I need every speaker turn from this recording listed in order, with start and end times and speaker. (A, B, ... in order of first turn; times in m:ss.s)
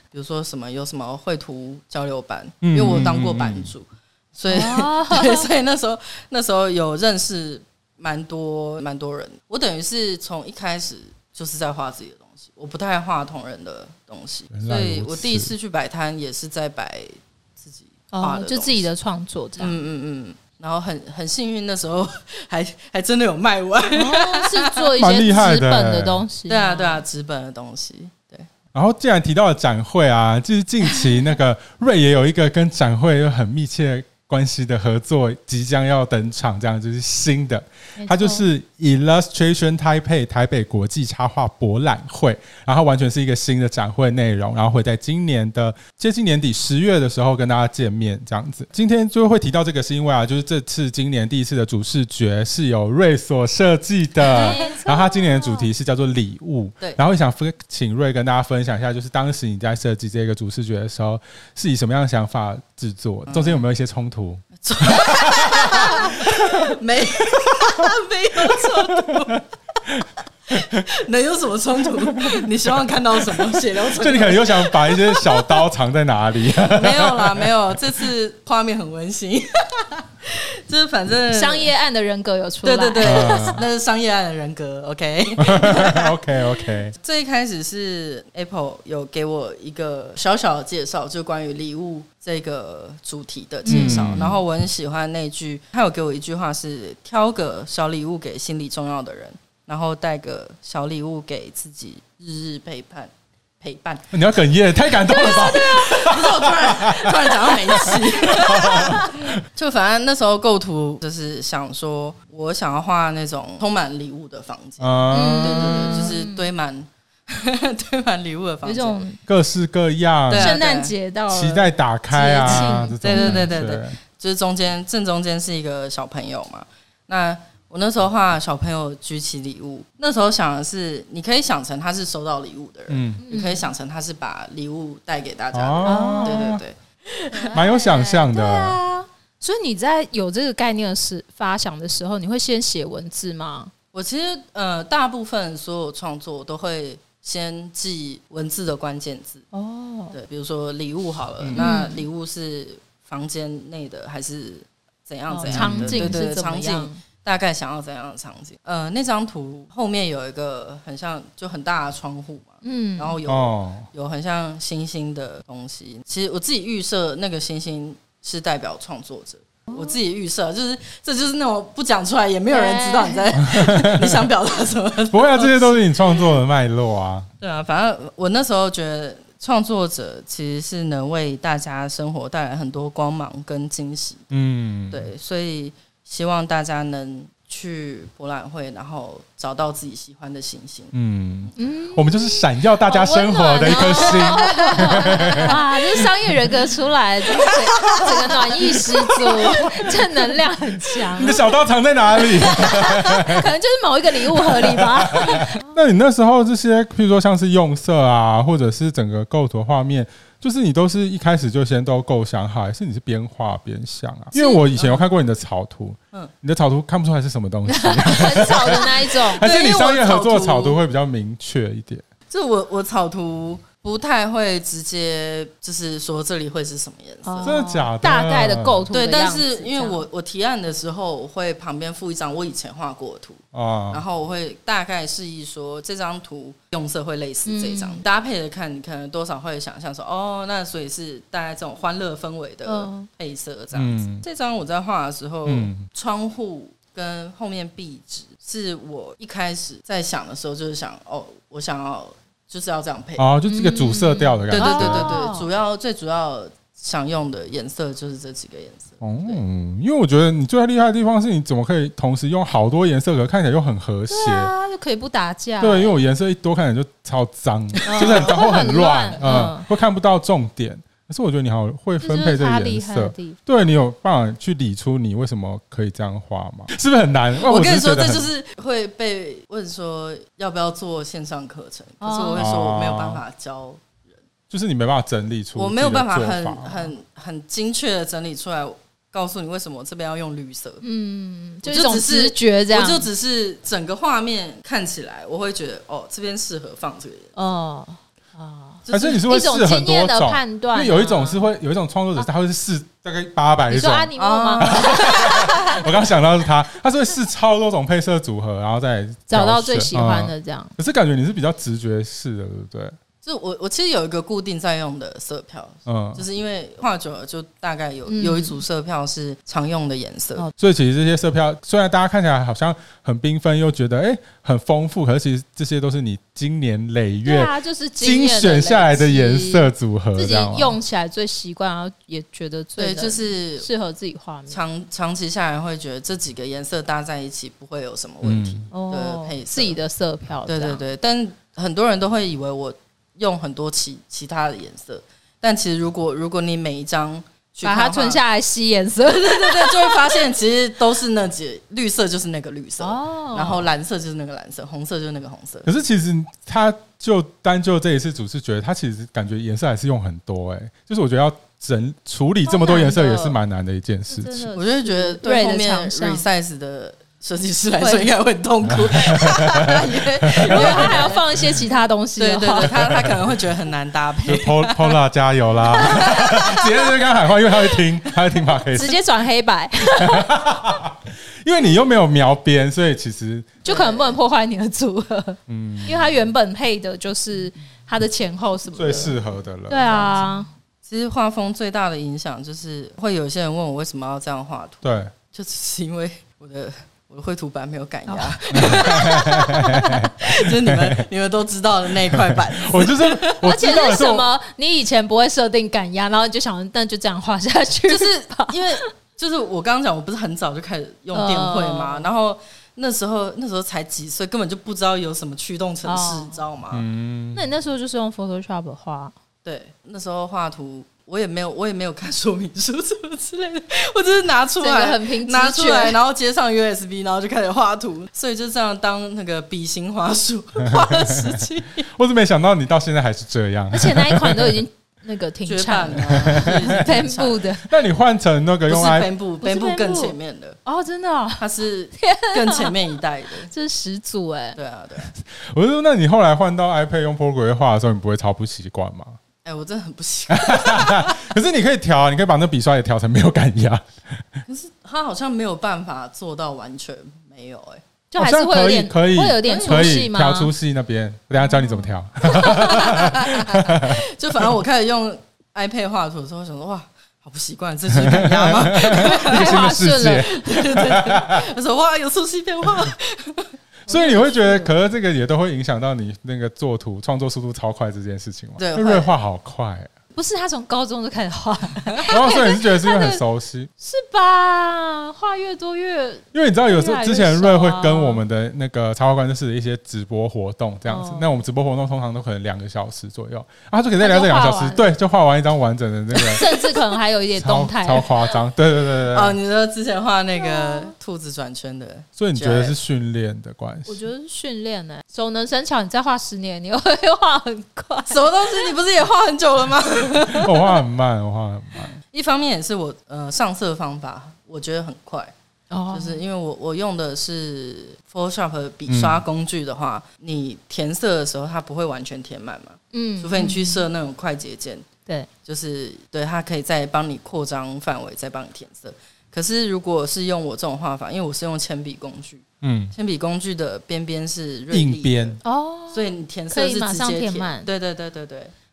0:00.1-0:18.9 A
0:02.6-0:03.7 B
0:04.5-0:05.5 C
0:14.5-0:15.5 B
0:18.1-0:19.7 C
0:19.6-0:24.9 A
0:24.0-0:27.0 C
0:25.0-0:26.2 B
0:26.5-0:28.5 A
0:28.7-1:06.7 B
0:38.0-0:38.4 C
0:54.2-0:55.7 C
0:54.4-0:54.8 A
1:03.2-1:03.6 A
1:04.6-1:09.4 A
1:08.5-1:09.4 B
1:10.5-1:15.6 A
1:12.1-1:12.5 B
1:13.3-1:17.5 B
1:16.7-1:21.7 A
1:21.3-1:23.6 C
1:22.6-1:26.1 A
1:23.0-1:23.6 B
1:25.4-1:26.9 B
1:26.9-1:44.1 A
1:33.6-1:34.1 C
1:33.7-1:34.4 B
1:44.1-1:49.3 B
1:45.0-1:59.0 A
1:45.1-1:46.0 C
1:54.8-1:56.1 B
1:55.1-1:56.5 C
1:58.6-1:59.2 C
1:59.3-2:00.6 B
2:00.3-2:00.9 A
2:00.4-2:03.6 C
2:01.3-2:04.0 B
2:02.1-2:17.5 A
2:12.9-2:13.2 B
2:13.2-2:13.7 C
2:15.5-2:16.6 B
2:15.8-2:16.5 C
2:17.3-2:23.7 C
2:17.5-2:18.8 B
2:23.9-2:29.4 A
2:29.5-2:30.1 C
2:30.1-2:56.3 A
2:31.4-2:31.7 B
2:31.6-2:32.0 C
2:35.3-2:37.0 C
2:35.4-2:36.2 B
2:42.6-2:43.2 C
2:43.3-2:43.9 B
2:49.7-2:50.0 C
2:52.5-2:53.3 C
2:53.4-2:54.2 B
2:55.1-2:57.3 B
2:57.4-3:04.3 A
3:04.3-3:05.1 B
3:04.9-3:10.9 A
3:10.9-3:16.1 B
3:11.6-3:21.4 C
3:13.9-3:15.5 A
3:17.4-3:19.8 A
3:21.1-3:23.5 B
3:22.1-3:25.6 C
3:24.2-3:42.0 B
3:34.3-3:34.7 C
3:34.8-3:35.0 A
3:37.7-3:39.5 C
3:39.4-3:40.8 A
3:42.3-3:47.6 A
3:47.2-3:50.0 C
3:47.4-3:48.9 B
3:48.9-4:13.3 A
3:53.5-3:54.0 B
3:57.4-3:58.0 C
4:02.6-4:03.1 C
4:03.7-4:04.2 B
4:05.4-4:05.8 B
4:13.2-4:15.2 B
4:13.5-4:15.4 C
4:14.5-4:19.4 A
4:19.0-4:24.5 B
4:24.1-4:26.0 C
4:25.6-4:38.3 B
4:27.8-4:29.6 C
4:27.9-4:28.3 A
4:32.0-4:33.5 C
4:37.4-4:43.9 A
4:42.0-4:42.4 C
4:42.4-4:43.2 B
4:44.5-4:46.8 B
4:45.5-4:50.8 A
4:50.8-4:53.1 C
4:51.6-4:57.3 A
4:57.4-5:01.5 C
4:58.8-4:59.2 A
4:58.9-5:13.0 B
5:03.7-5:05.5 C
5:04.2-5:05.8 A
5:09.3-5:10.7 C
5:13.2-5:20.5 A
5:15.8-5:16.2 B
5:18.1-5:18.6 C
5:20.6-5:30.8 B
5:27.2-5:34.6 C
5:32.8-5:33.7 A
5:34.5-5:39.8 A
5:38.2-5:38.6 B
5:38.7-5:40.8 C
5:40.5-5:48.2 A
5:47.6-5:50.2 C
5:49.2-5:55.7 A
5:52.8-5:53.6 C
5:55.6-6:04.5 B
6:02.4-6:03.4 C
6:04.1-6:06.2 C
6:04.5-6:11.3 A
6:07.8-6:08.1 C
6:08.7-6:11.1 B
6:10.5-6:13.0 C
6:12.2-6:14.9 A
6:12.6-6:13.1 B
6:14.2-6:19.0 B
6:15.8-6:16.6 C
6:15.8-6:16.6 A
6:18.7-6:20.3 C
6:20.0-6:23.6 B
6:23.6-6:29.2 C
6:23.6-6:24.2 A
6:25.5-6:26.1 B
6:28.7-6:30.1 B
6:29.7-6:30.5 C
6:30.8-6:43.4 A
6:34.8-6:35.1 B
6:38.1-6:39.1 C
6:38.5-6:41.0 B
6:42.1-6:44.3 B
6:43.2-6:48.9 C
6:47.9-6:56.8 A
6:51.1-6:52.1 C
6:55.8-6:56.4 C
6:56.7-6:57.4 B
6:57.3-6:59.1 C
6:59.4-7:11.9 A
7:04.6-7:06.0 C
7:10.6-7:14.6 B
7:13.7-7:17.7 C
7:15.4-7:17.4 A
7:16.3-7:16.8 B
7:17.6-7:19.1 B
7:18.7-7:20.6 A
7:19.4-7:20.1 C
7:20.6-7:22.8 C
7:21.4-7:23.5 A
7:23.5-7:24.6 C
7:24.5-7:25.1 A
7:25.3-7:29.2 B
7:29.4-7:31.3 A
7:30.3-7:34.3 B
7:34.5-7:37.8 A
7:38.1-7:40.5 C
7:38.2-7:44.0 B
7:39.4-7:40.0 A
7:41.4-7:42.9 C
7:42.3-7:49.7 A
7:47.9-7:51.4 B
7:48.9-7:50.5 C
7:50.2-7:53.5 A
7:53.9-7:54.7 C
7:53.9-7:59.9 B
7:58.6-7:59.1 A
8:00.1-8:03.2 C
8:02.1-8:03.7 B
8:03.8-8:08.2 C
8:06.3-8:16.6 B
8:10.9-8:11.3 C
8:14.0-8:14.8 C
8:16.2-8:18.2 C
8:17.4-8:19.4 B
8:19.1-8:22.8 A
8:20.4-8:20.9 C
8:22.2-8:24.1 B
8:23.9-8:28.7 C
8:28.1-8:30.7 A
8:30.3-8:31.9 B
8:32.1-8:35.3 A
8:35.7-8:36.2 C
8:35.9-8:44.8 A
8:38.9-8:39.2 B
8:42.9-8:43.8 C
8:45.4-8:55.4 A
8:52.6-8:52.9 B
8:54.7-8:55.4 B
8:55.4-8:57.7 C
8:55.9-8:58.5 A